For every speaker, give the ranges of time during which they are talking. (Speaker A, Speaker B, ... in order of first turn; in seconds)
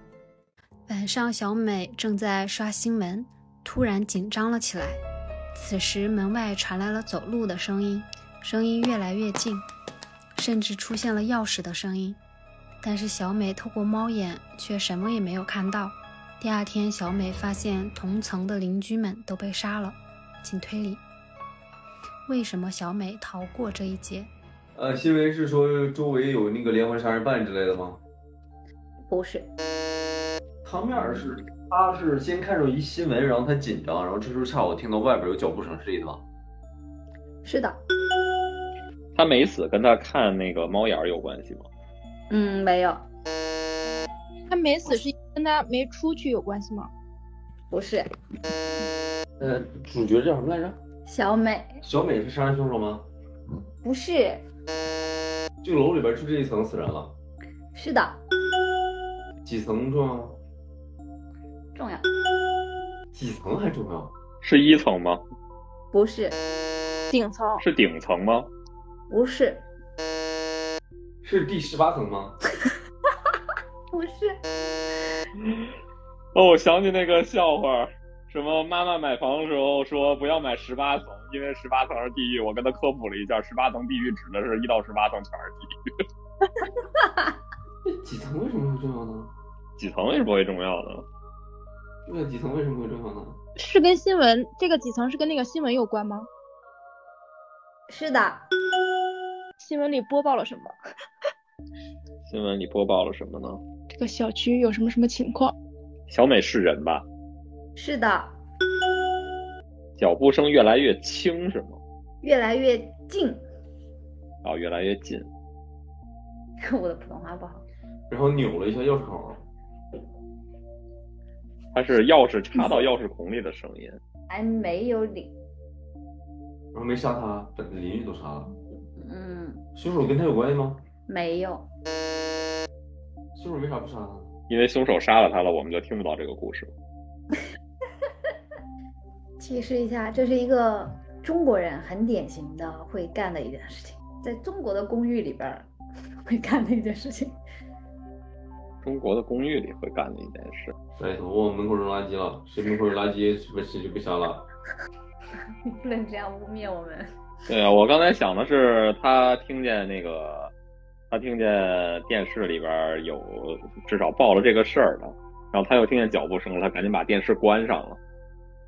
Speaker A: 0.9-5.0, 5.5-9.7, 10.4-12.2, 12.8-21.0, 22.3-24.3
Speaker B: 24.8-28.0, 30.6-36.2, 49.4-50.8, 51.8-53.1, 55.6-57.1, 59.5-60.4, 63.1-64.1, 71.2-72.4, 87.8-89.3, 92.1-93.4, 118.1-119.4, 126.7-128.5, 129.8-130.8, 133.3-134.3, 151.0-154.5
Speaker C: 29.1-29.5, 37.4-37.8, 42.3-43.0, 47.7-48.1, 51.0-51.8, 53.8-54.4, 57.8-58.2, 61.8-62.1, 65.9-66.4, 69.1-69.7, 73.9-74.4, 97.9-98.5, 107.8-108.4, 112.2-113.4, 116.6-117.7, 124.3-125.3, 129.0-129.7, 131.1-131.7, 139.4-145.7, 146.2-147.4, 155.7-157.1
Speaker D: 39.1-41.7, 64.4-65.2, 67.6-68.5, 76.3-85.8, 89.8-91.1, 102.2-103.6, 106.1-107.1, 110.0-111.8, 114.4-115.3, 121.7-124.0, 134.5-136.7, 148.8-150.7, 157.5-160.5, 161.1-168.0
Speaker E: 44.5-46.9, 67.1-67.6, 93.6-96.3, 99.6-100.7, 103.9-105.5